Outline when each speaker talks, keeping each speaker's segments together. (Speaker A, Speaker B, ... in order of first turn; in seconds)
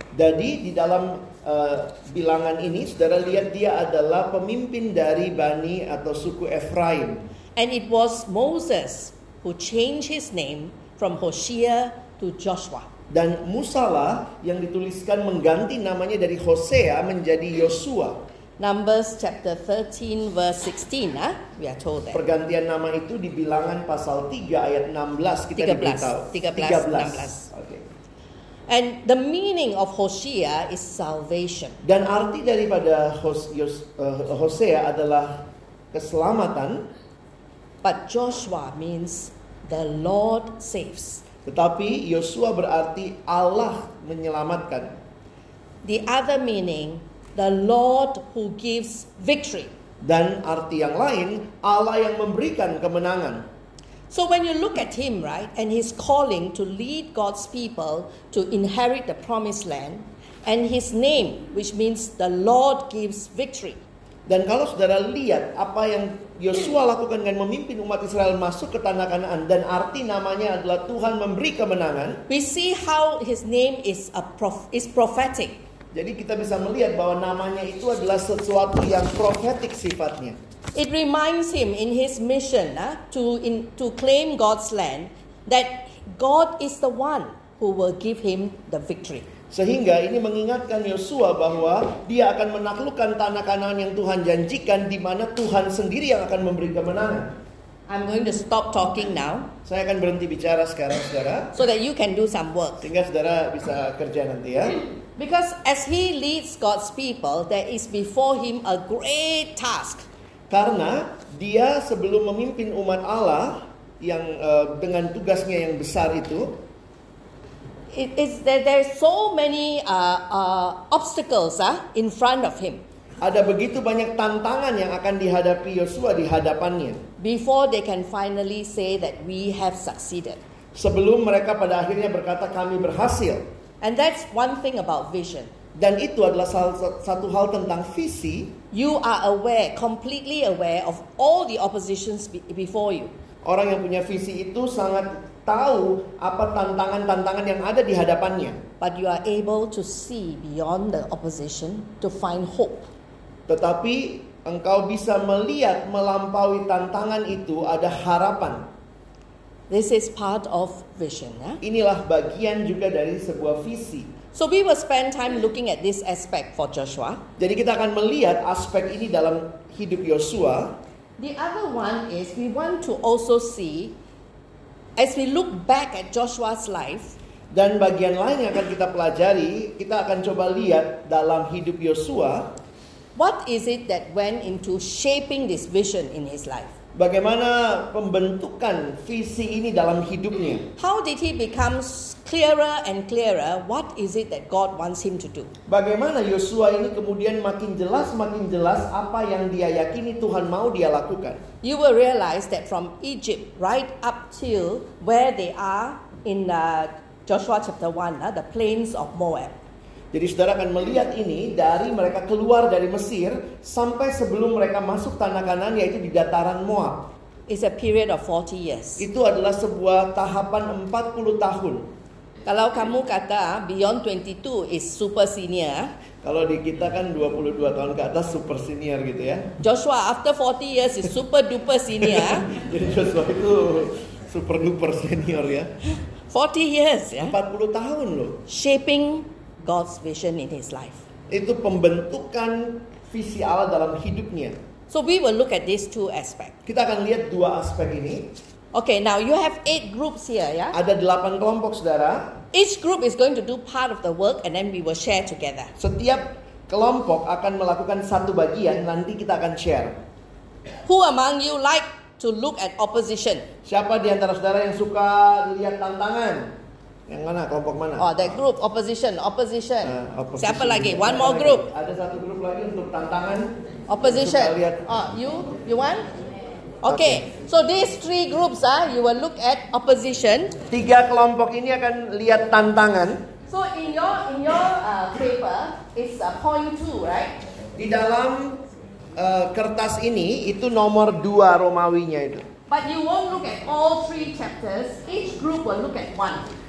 Speaker A: 0.1-7.2, 13.1-18.2, 22.1-27.9, 31.8-35.4, 35.9-36.9, 41.5-45.0, 50.0-53.5, 64.3-72.2, 75.9-80.4, 89.5-97.3, 99.7-101.5, 102.8-104.8, 110.5-116.6, 123.2-127.0, 130.8-133.4, 135.8-138.5, 143.4-148.6, 153.5-158.7, 161.6-164.1, 167.4-170.8, 177.5-182.5, 186.9-190.7, 195.7-201.4, 210.1-217.1, 219.0-221.9, 226.2-229.5, 232.0-235.7, 237.3-238.4, 241.3-244.6, 246.7-248.3, 250.7-252.4, 255.8-260.0, 263.6-266.5, 267.1-268.1, 269.8-274.9, 276.9-277.2, 280.7-283.2, 287.8-288.6, 289.2-292.5
Speaker B: 7.6-12.9, 18.6-22.2, 25.6-27.5, 28.7-31.8, 37.8-41.2, 45.8-49.7, 54.1-63.8, 72.3-75.6, 80.8-89.2, 97.9-99.5, 101.5-102.9, 105.2-110.1, 117.9-122.8, 127.2-130.4, 133.8-135.5, 138.7-143.1, 148.8-152.8, 159.7-161.6, 164.3-167.2, 171.2-174.0, 175.0-177.2, 183.2-186.7, 190.8-195.5, 201.6-209.6, 217.5-219.1, 222.5-225.9, 229.6-232.5, 236.3-237.4, 238.5-241.0, 244.9-246.6, 248.7-250.8, 252.5-255.7, 260.8-263.5, 268.0-271.6, 273.9-276.1, 276.8-280.6, 283.5-287.4, 292.7-296.4